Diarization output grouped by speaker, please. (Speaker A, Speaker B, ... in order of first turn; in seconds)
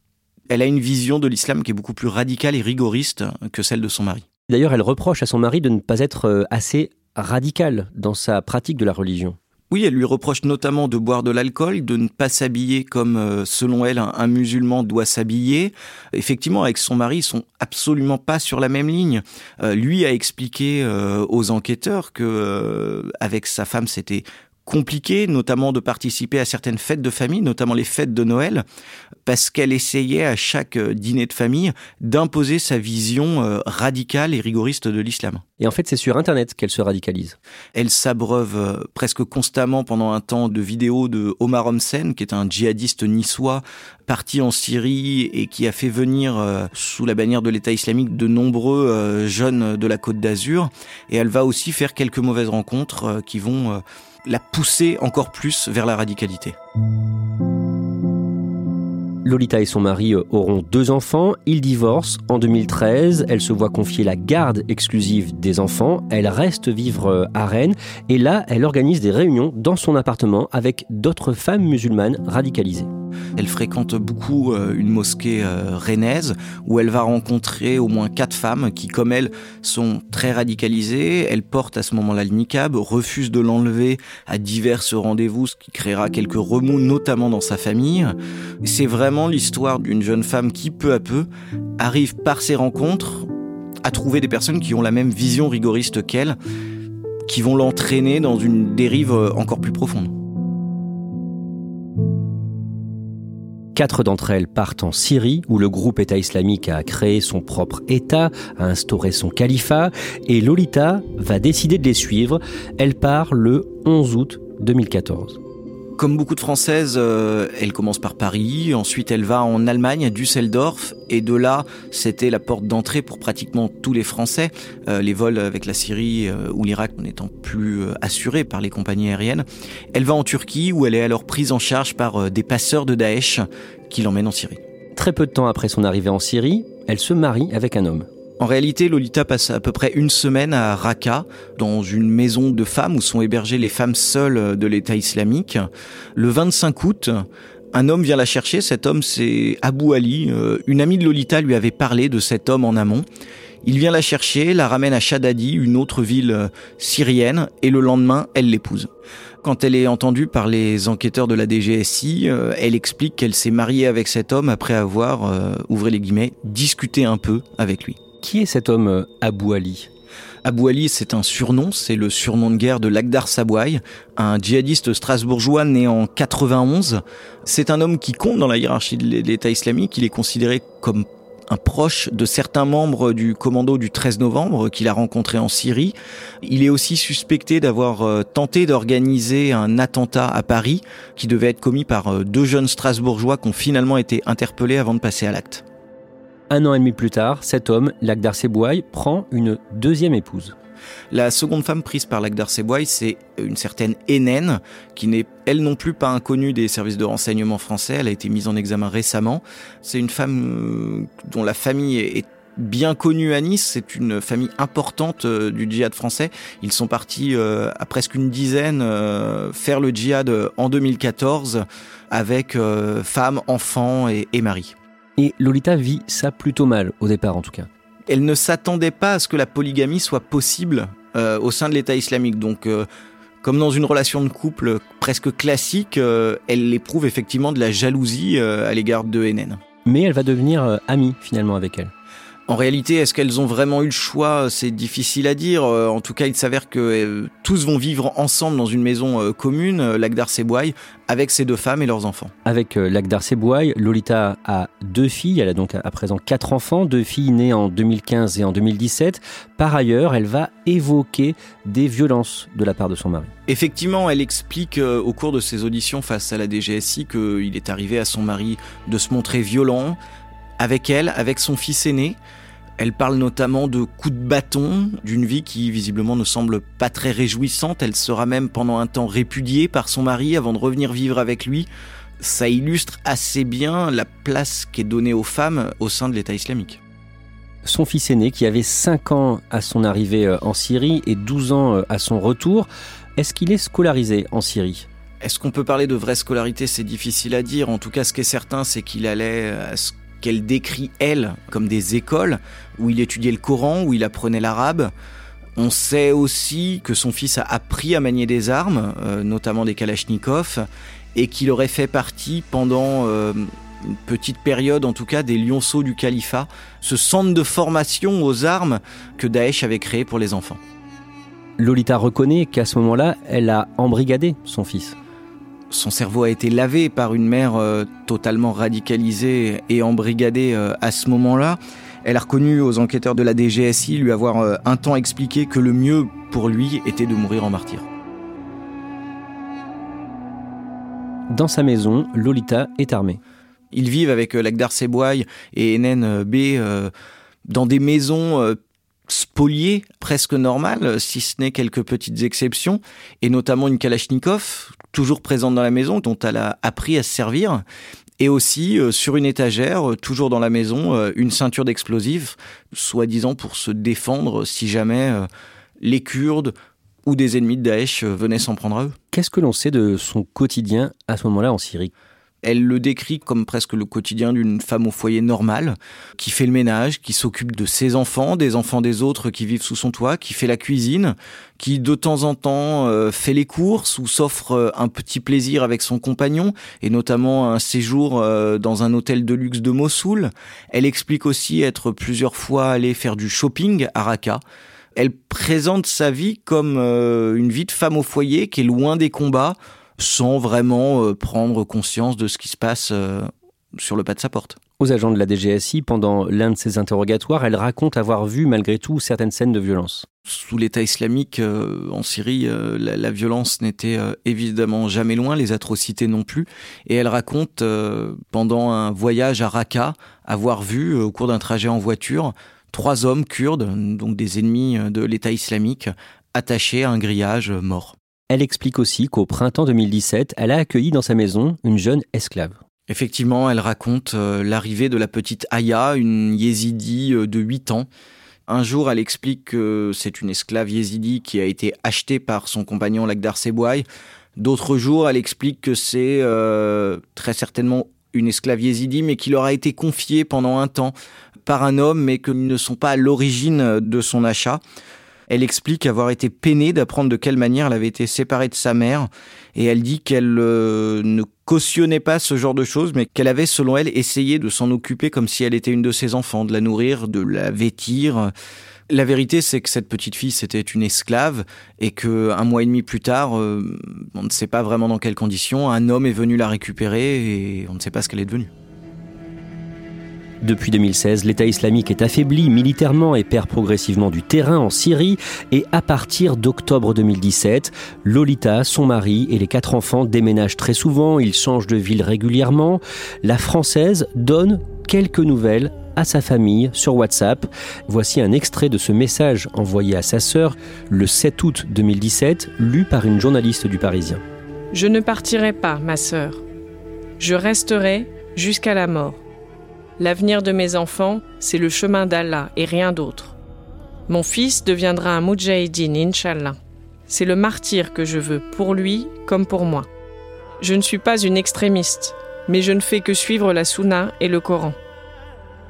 Speaker A: 0.5-4.2, 9.7-28.6, 29.3-35.4, 37.8-56.6, 73.4-91.3, 91.8-93.3, 93.8-96.4, 97.3-100.1, 116.0-134.6, 138.4-153.0, 153.6-158.9, 159.4-168.0, 170.4-195.6, 201.1-224.8, 228.1-232.9, 233.4-239.6, 242.5-252.3, 263.5-270.0, 270.6-272.2, 272.8-281.7, 282.2-286.8, 295.2-304.9, 305.6-320.6, 325.7-337.9, 343.7-346.9, 347.5-357.6, 358.2-365.3, 365.8-366.5, 367.1-369.0, 372.4-394.4, 394.9-404.6, 410.3-428.0, 432.9-437.9, 438.5-443.9, 444.4-450.9, 451.5-454.6, 455.3-468.3, 468.9-478.5
Speaker B: 4.5-9.4, 35.6-37.4, 59.2-72.9, 103.8-115.4, 134.9-138.1, 168.2-169.9, 196.5-200.6, 225.2-227.7, 239.8-241.9, 252.5-263.3, 287.6-294.9, 321.6-324.9, 341.3-343.2, 369.1-371.9, 404.8-410.1, 428.3-432.6, 480.4-504.2
Speaker C: 504.7-506.4, 507.2-509.2, 510.0-513.4, 514.1-519.9, 520.6-524.8